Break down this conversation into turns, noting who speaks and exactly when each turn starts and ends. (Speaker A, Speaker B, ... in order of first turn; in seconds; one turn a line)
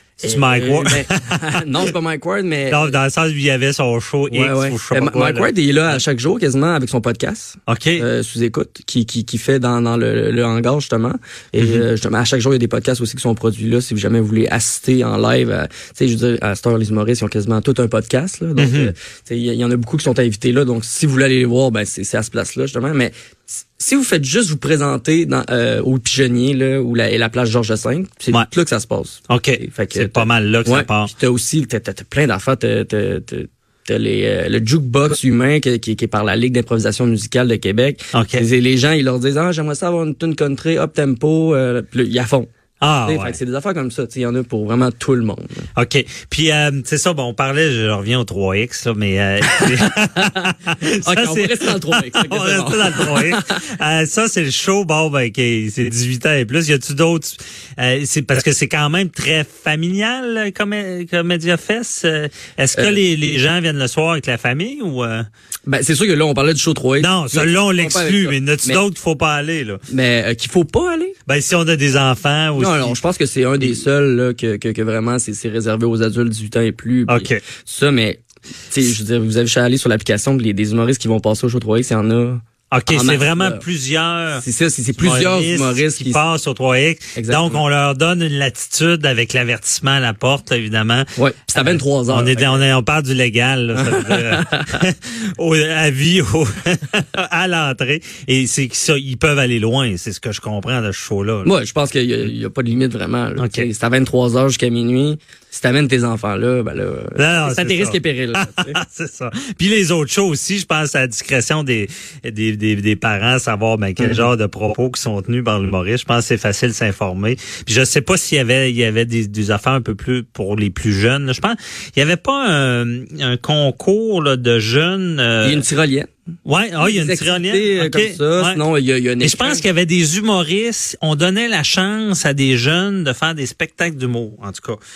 Speaker A: 0.2-1.9
Speaker B: 0.2-3.0
Speaker A: 2.7-6.0
Speaker B: 4.3-42.5
Speaker A: 7.7-8.1
Speaker A: 11.6-11.8
Speaker A: 18.6-18.9
Speaker A: 29.3-31.1
Speaker A: 38.1-38.4
Speaker A: 42.8-43.4
Speaker B: 43.0-45.6
Speaker A: 45.8-65.2
Speaker B: 49.5-50.5
Speaker B: 51.0-53.5
Speaker B: 62.8-63.0
Speaker B: 65.7-68.8
Speaker A: 67.0-69.8
Speaker B: 69.9-71.2
Speaker A: 71.3-73.0
Speaker B: 72.6-83.6
Speaker A: 77.1-77.4
Speaker A: 82.7-84.4
Speaker B: 84.3-86.2
Speaker A: 85.0-101.5
Speaker B: 87.2-87.6
Speaker B: 91.2-92.7
Speaker B: 93.8-94.8
Speaker B: 101.4-108.8
Speaker A: 103.4-103.7
Speaker A: 107.2-125.7
Speaker B: 114.0-114.2
Speaker B: 125.4-126.1
Speaker A: 126.5-128.6
Speaker B: 126.8-129.6
Speaker A: 129.2-134.8